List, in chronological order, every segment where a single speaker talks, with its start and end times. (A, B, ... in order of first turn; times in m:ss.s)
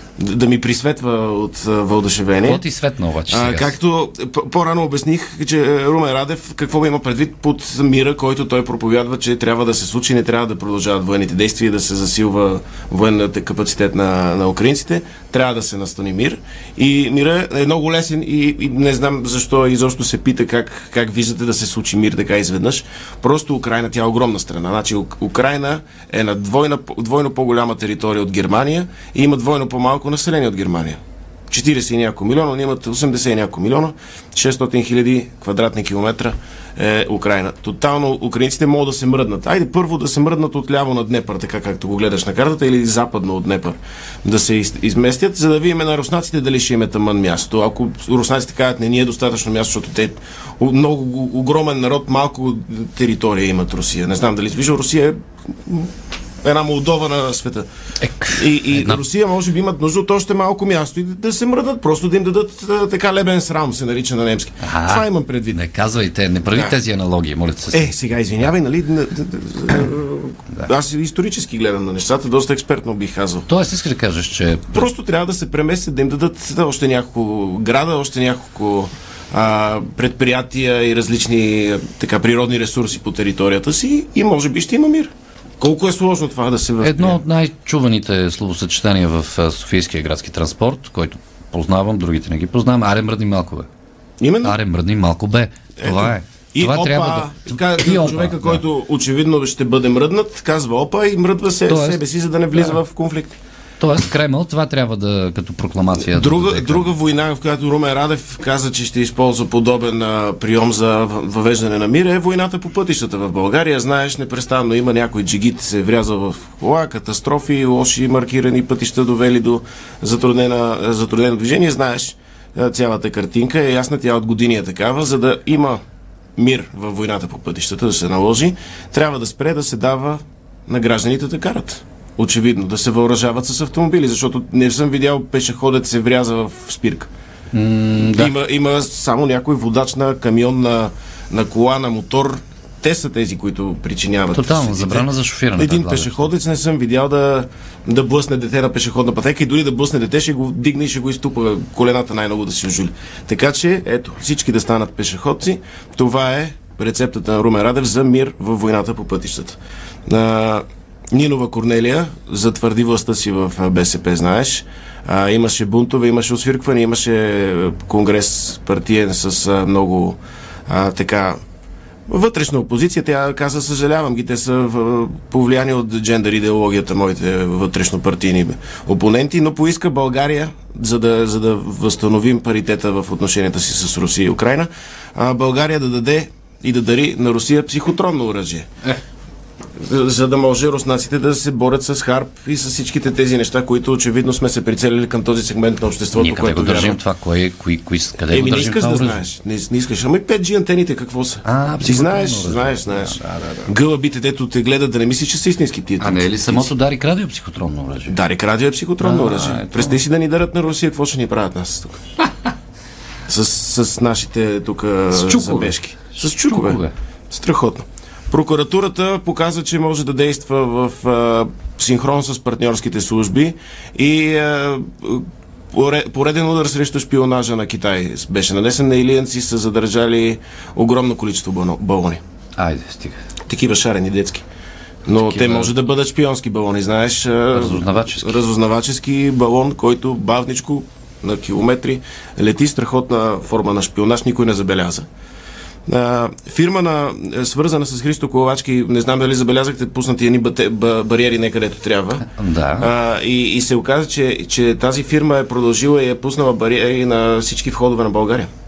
0:00.2-0:02.6 A
0:02.4-0:03.8 B
0:03.3-0:31.0 A
0:31.5-0:55.9 A
0:56.4-0:57.7 A
0:58.0-0:59.0 B
0:58.3-1:05.6 A
1:04.6-1:07.9 B
1:07.7-1:13.5 A
1:13.5-1:14.9 B
1:14.7-1:27.2 A
1:26.8-1:33.7 B
1:34.2-1:34.6 A
1:34.4-1:38.6 B
1:35.8-1:43.4 A
1:41.7-1:42.0 B
1:42.5-1:42.8 B
1:43.8-1:46.9 B
1:46.0-2:05.8 A
2:06.4-2:17.1 A
2:17.5-2:18.3 B
2:18.1-2:51.4 A
2:24.3-2:26.3 B
2:52.1-3:08.7 A
3:09.8-3:17.0 A
3:16.2-3:19.2 B
3:18.3-3:23.2 A
3:21.4-3:23.7 B
3:23.7-3:26.7 A
3:26.0-3:28.1 B
3:28.1-3:32.0 A
3:29.0-3:30.0 B
3:33.3-3:52.2 A
3:35.1-3:36.9 B
3:52.6-3:53.2 B
3:53.5-3:54.4 A
3:55.1-4:05.0 A
3:55.1-3:55.7 B
3:57.5-3:58.4 B
4:05.9-4:12.2 A
4:12.2-4:12.9 B
4:12.8-4:18.5 A